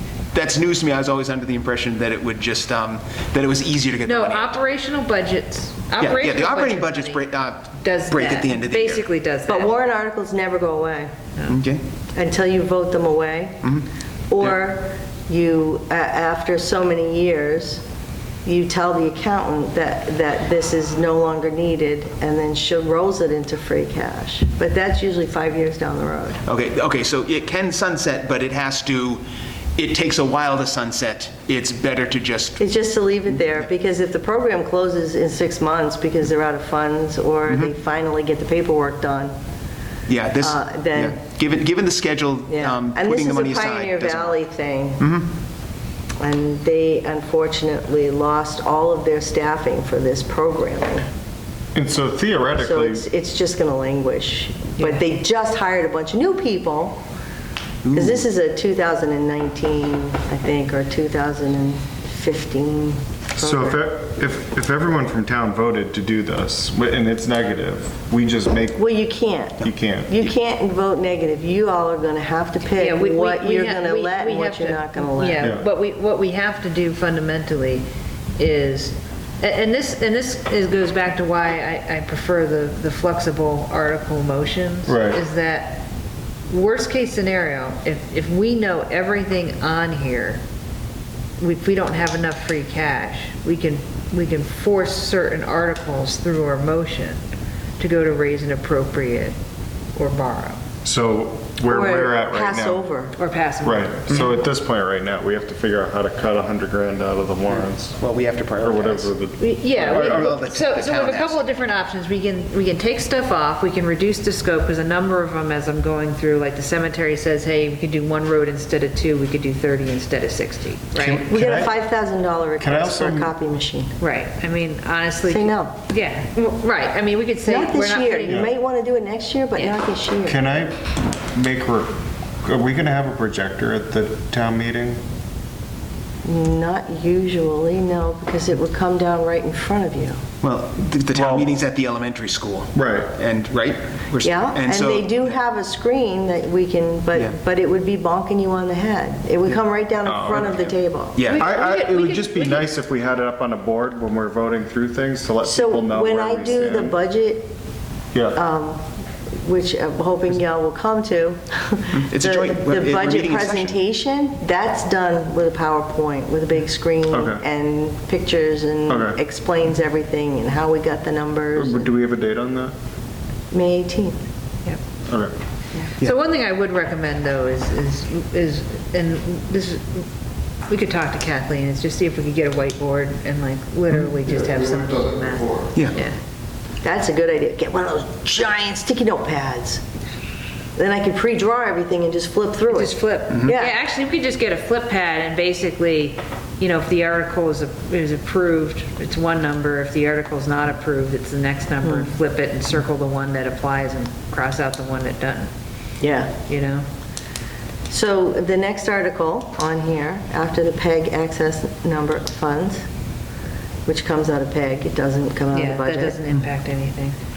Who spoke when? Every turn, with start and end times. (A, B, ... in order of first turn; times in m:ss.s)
0:00.3-0:04.6 A
0:04.0-0:07.2 B
0:06.0-0:09.1 A
0:07.8-0:09.7 B
0:09.5-0:11.1 C
0:11.5-0:11.8 A
0:12.2-0:13.6 C
0:14.3-0:17.8 C
0:18.4-0:26.4 C
0:26.5-0:29.2 A
0:29.8-0:32.6 A
0:32.6-0:39.3 C
0:40.1-0:44.4 A
0:40.4-0:41.2 C
0:42.5-0:45.0 C
0:45.0-0:45.3 A
0:46.2-0:51.1 C
0:51.8-0:53.0 D
0:52.6-0:57.0 C
0:57.8-0:58.2 A
0:57.9-1:03.8 C
1:03.4-1:08.8 D
1:08.8-1:15.5 C
1:09.6-1:10.1 D
1:12.7-1:17.8 B
1:18.4-1:25.8 B
1:24.9-1:25.2 D
1:26.5-1:30.4 B
1:31.4-1:37.2 B
1:37.8-1:39.4 B
1:40.0-1:40.6 B
1:40.8-1:42.9 D
1:41.6-1:43.2 C
1:43.2-1:44.4 B
1:43.6-1:48.0 D
1:47.5-1:49.1 A
1:48.6-1:50.3 D
1:49.4-2:01.3 B
1:49.7-1:51.4 A
2:01.0-2:01.7 D
2:01.3-2:03.9 C
2:02.6-2:03.3 D
2:04.0-2:08.5 B
2:05.3-2:05.8 C
2:07.4-2:10.4 C
2:08.3-2:08.5 D
2:10.2-2:15.0 D
2:16.2-2:20.2 C
2:20.4-2:25.3 A
2:21.2-2:21.5 D
2:22.8-2:23.1 D
2:24.2-2:31.3 C
2:30.0-2:30.8 D
2:31.2-2:31.5 A
2:31.2-2:32.7 B
2:31.3-2:37.0 D
2:35.4-2:37.5 C
2:38.3-2:51.9 C
2:42.0-2:43.8 A
2:47.1-2:47.4 D
2:48.9-2:49.2 D
2:51.6-2:52.7 D
2:53.5-2:54.2 C
2:55.1-2:55.3 D
2:56.0-3:00.1 B
3:00.7-3:06.2 B
3:06.8-3:09.8 C
3:10.8-3:13.8 C
3:12.7-3:25.5 B
3:13.3-3:13.6 A
3:21.8-3:22.1 C
3:26.0-3:26.4 C
3:26.5-3:26.8 B
3:27.9-3:32.8 C
3:33.9-3:36.2 C
3:35.5-3:37.2 B